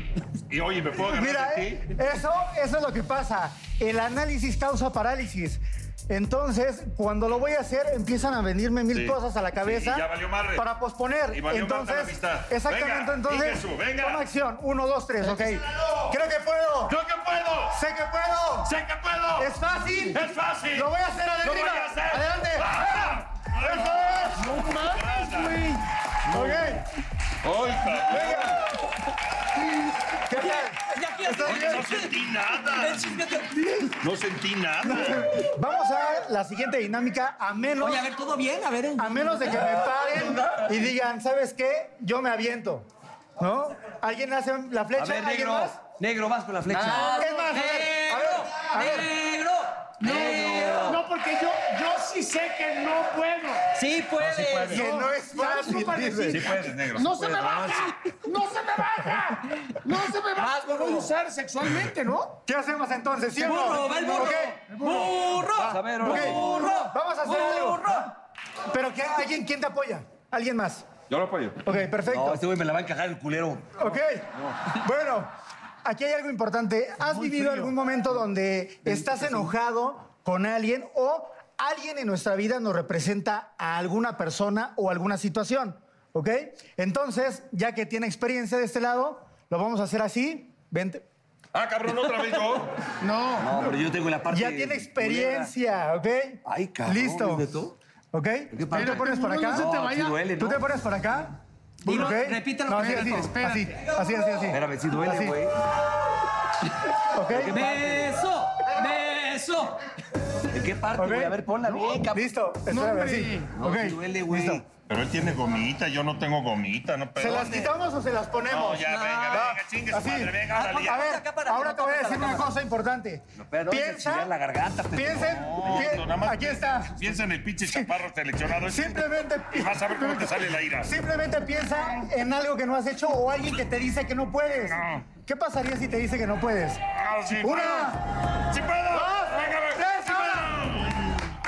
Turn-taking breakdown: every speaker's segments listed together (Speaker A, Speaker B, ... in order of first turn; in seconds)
Speaker A: 0.5-1.9, 8.9-10.7, 11.3-14.2, 15.2-16.2, 16.9-17.8, 18.6-19.6, 20.1-25.7, 26.2-26.8, 27.4-28.6, 31.4-33.2, 34.0-35.5, 54.2-54.9, 56.3-57.9, 71.1-71.6, 91.5-92.7, 114.8-117.6, 118.4-121.1, 125.2-130.9, 134.7-135.1, 136.9-141.1
Speaker B: 1.0-16.9, 17.7-18.7, 19.4-22.8, 23.6-24.3, 26.3-26.8, 28.1-28.6, 30.3-31.9, 34.8-38.1, 39.0-42.9, 43.4-45.8, 46.8-49.1, 54.7-56.5, 62.4-65.1, 65.7-68.1, 68.7-70.9, 71.6-72.4, 73.8-75.3, 75.8-91.0, 94.3-97.5, 98.1-99.7, 100.3-105.4, 107.1-107.6, 111.0-111.4, 112.0-114.6, 117.2-124.3, 124.9-127.2, 128.6-138.0, 138.9-141.0
Speaker C: 24.3-25.8, 50.8-53.6, 54.7-62.4, 77.0-77.7, 93.0-93.6, 98.7-100.3, 101.9-102.1, 102.7-103.9, 112.7-113.5
Speaker D: 30.3-33.9, 37.8-39.6, 46.7-51.0, 53.7-54.9, 60.4-61.1, 63.4-68.1, 101.8-103.3, 107.5-109.8, 118.9-119.5, 120.5-122.5
Speaker E: 45.0-47.1, 50.0-51.0, 63.4-63.7, 65.6-66.7, 72.0-73.8, 78.9-79.4, 93.4-95.5, 96.4-97.7, 98.5-100.6, 104.5-105.5, 107.3-108.2, 110.5-112.3, 113.5-114.6, 117.3-117.7, 123.3-125.8